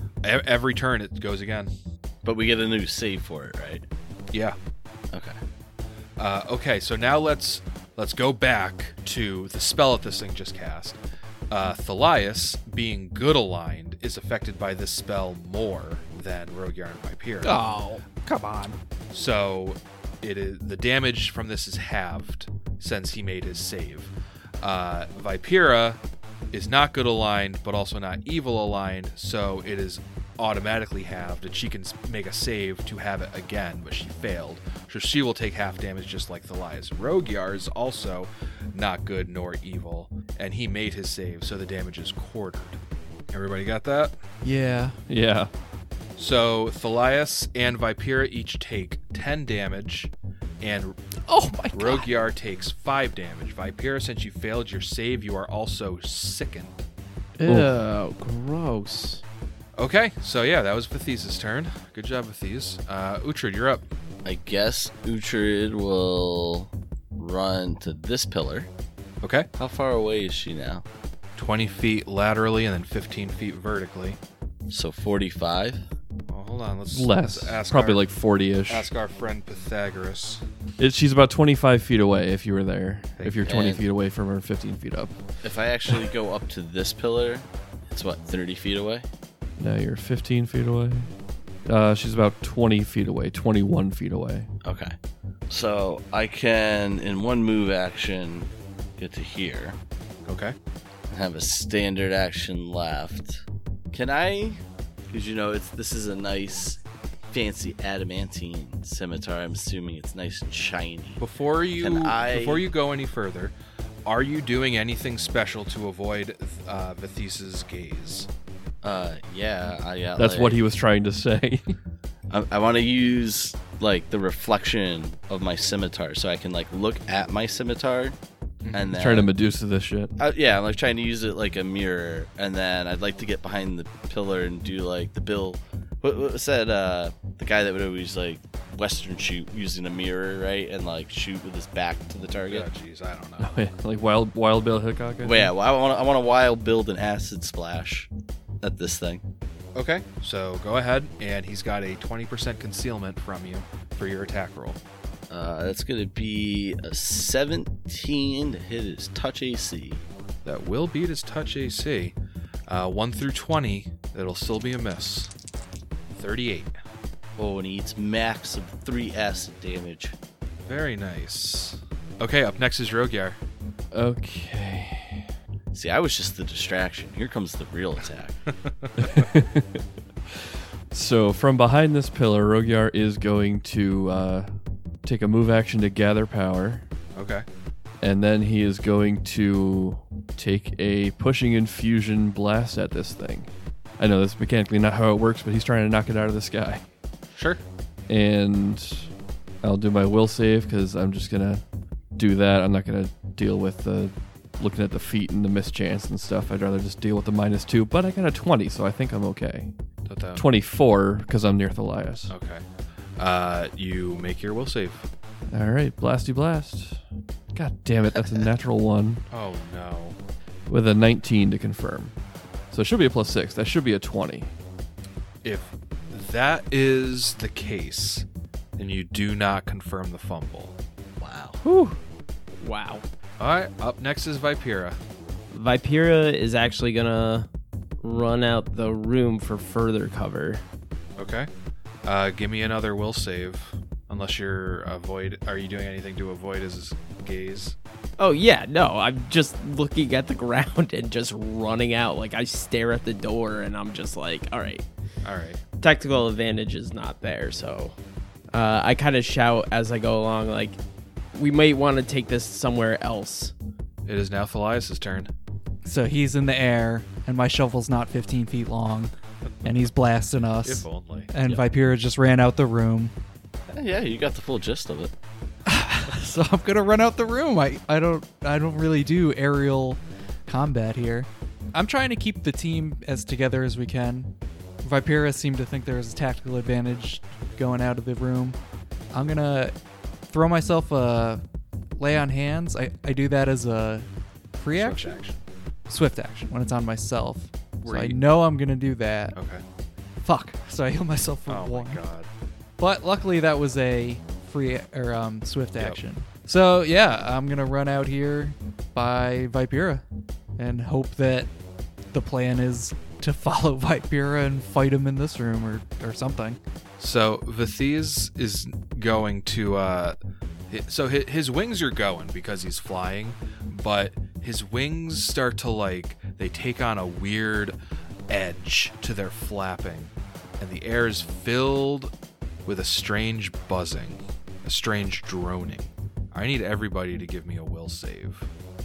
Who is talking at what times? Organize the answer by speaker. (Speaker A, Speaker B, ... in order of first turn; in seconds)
Speaker A: 0.2-1.7, 4.3-4.6, 6.2-17.6, 19.1-26.0, 26.5-42.8, 43.3-44.1, 46.2-51.0, 51.7-56.8, 59.8-63.9, 69.2-69.5, 71.3-74.2, 76.3-78.0, 78.7-80.4, 83.2-83.5, 100.3-100.5, 111.2-118.3, 128.6-128.9, 142.5-143.5, 149.7-154.8, 160.4-162.2, 162.7-165.3, 166.1-166.7, 170.7-173.4, 178.6-179.3, 187.2-187.4, 197.3-197.6, 210.1-210.4, 212.3-212.6, 213.2-215.1, 219.3-220.2, 225.4-228.2, 228.8-230.7, 233.4-235.0, 241.2-241.5, 242.0-247.8, 255.2-255.6, 264.1-265.3, 270.6-271.3, 294.7-295.4, 297.8-298.2, 299.3-299.6, 301.5-302.3, 317.0-320.1, 320.7-327.8, 328.3-332.1, 332.6-338.5
Speaker B: 2.2-3.8, 64.2-68.7, 69.6-70.8, 74.7-75.8, 83.4-83.8, 85.4-89.0, 94.6-94.9, 95.5-99.8, 101.1-111.2, 111.8-112.7, 118.8-120.5, 122.3-128.2, 128.7-129.3, 130.2-142.7, 145.2-148.1, 148.6-149.2, 155.3-160.0, 167.4-170.1, 175.7-178.4, 218.2-218.4, 231.2-231.6, 273.7-275.1
Speaker C: 17.4-18.7, 57.4-59.2, 231.6-232.0, 232.6-233.0, 235.5-237.5, 238.0-240.6, 248.2-254.9, 255.8-258.0, 258.5-260.8, 261.3-263.5
Speaker D: 44.4-45.0, 51.3-52.1, 265.8-269.1, 269.6-273.1, 275.7-288.6, 289.1-289.7, 290.3-291.4, 292.0-295.2, 295.9-299.4, 300.2-302.0, 302.8-310.0, 310.6-311.5, 312.1-316.6
Speaker E: 45.1-45.5, 76.9-78.9, 80.8-85.2, 89.6-91.1, 91.7-94.5, 120.2-121.7, 128.9-130.1, 143.4-145.5, 173.9-175.2, 179.0-184.5, 185.0-186.8, 188.0-196.8, 198.1-199.1, 199.6-201.6, 202.2-209.7, 210.3-212.3, 215.5-217.0, 217.5-219.2, 220.7-222.1, 222.7-224.5